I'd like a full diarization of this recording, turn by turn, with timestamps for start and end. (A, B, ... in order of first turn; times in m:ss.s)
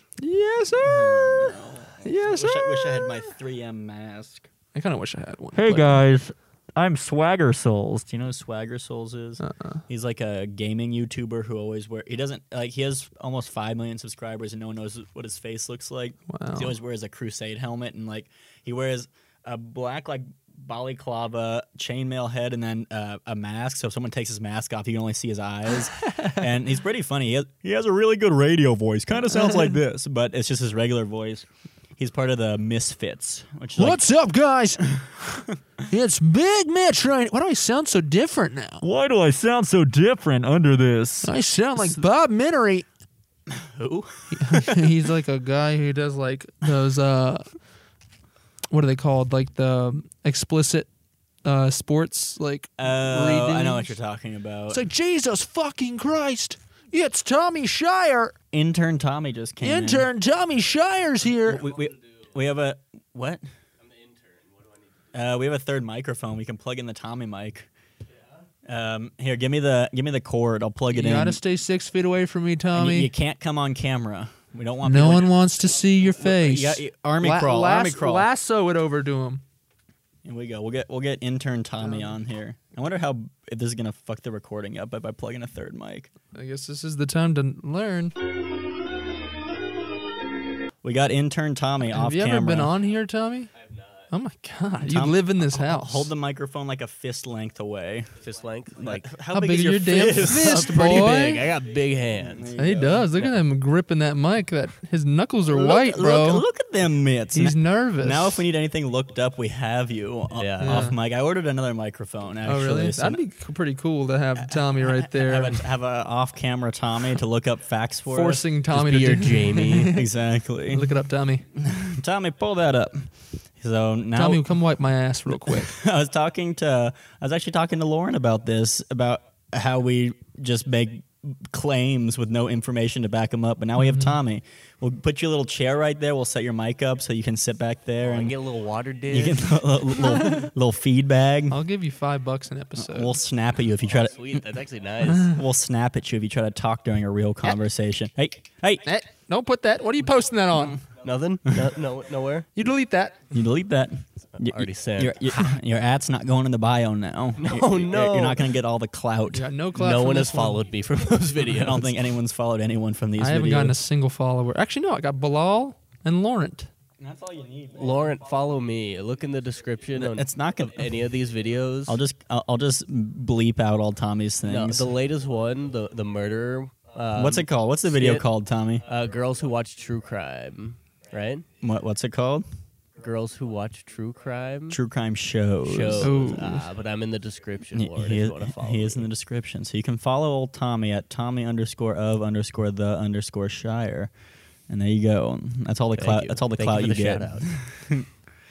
0:00.2-0:03.3 A
0:00.8-0:04.5 B
0:04.8-0:06.0 A
0:05.6-0:34.0 B
0:09.4-0:09.8 A
0:16.3-0:16.7 A
0:26.1-0:26.4 A
0:33.8-0:35.0 A
0:35.2-0:35.5 B
0:35.9-0:38.8 A
0:38.8-0:41.9 B
0:41.2-0:42.9 A
0:43.5-0:44.9 B
0:44.3-0:47.5 A
0:48.7-0:50.9 A
0:51.4-0:53.9 A
0:52.8-0:54.8 B
0:54.7-0:58.3 A
0:58.5-1:00.1 B
0:59.6-1:01.6 A
1:01.4-1:03.4 B
1:05.1-1:07.7 B
1:08.7-1:11.4 B
1:10.9-1:13.1 A
1:12.7-1:15.3 B
1:14.8-1:19.4 A
1:16.2-1:18.3 B
1:20.2-1:26.1 B
1:21.8-1:22.1 A
1:26.3-1:28.1 A
1:30.8-1:32.7 B
1:31.9-1:33.5 A
1:34.1-1:36.1 A
1:34.8-1:38.1 B
1:38.2-1:39.2 C
1:38.8-1:41.1 B
1:39.3-1:41.4 A
1:40.3-1:42.5 C
1:42.2-1:43.1 B
1:42.6-1:46.5 A
1:45.5-1:53.2 B
1:47.3-1:48.4 A
1:50.4-1:50.9 C
1:50.6-1:51.0 A
1:52.4-1:55.6 A
1:54.4-1:58.5 B
1:58.1-2:00.1 A
1:58.7-2:00.0 C
1:59.9-2:00.9 B
2:00.7-2:01.5 A
2:01.5-2:04.4 B
2:04.2-2:05.8 A
2:05.5-2:18.4 B
2:13.8-2:14.2 A
2:18.0-2:19.6 C
2:19.1-2:21.6 B
2:21.5-2:23.1 A
2:22.8-2:24.4 B
2:24.0-2:25.4 C
2:25.1-2:28.8 B
2:28.8-2:30.8 A
2:31.0-2:32.5 C
2:32.6-2:33.3 A
2:33.3-2:39.5 B
2:34.4-2:35.4 C
2:37.4-2:38.5 C
2:39.3-2:40.6 A
2:39.8-2:42.0 C
2:41.5-2:43.8 B
2:43.2-2:46.7 A
2:47.0-2:48.2 B
2:47.8-2:52.0 C
2:50.0-2:50.9 B
2:51.9-2:54.9 B
2:54.5-2:58.2 C
2:57.2-2:58.8 B
2:58.9-3:01.4 C
3:01.6-3:02.4 B
3:03.0-3:04.8 C
3:04.7-3:06.2 B
3:05.6-3:09.0 C
3:06.0-3:06.7 A
3:07.7-3:14.1 B
3:14.7-3:18.1 B
3:16.0-3:17.5 C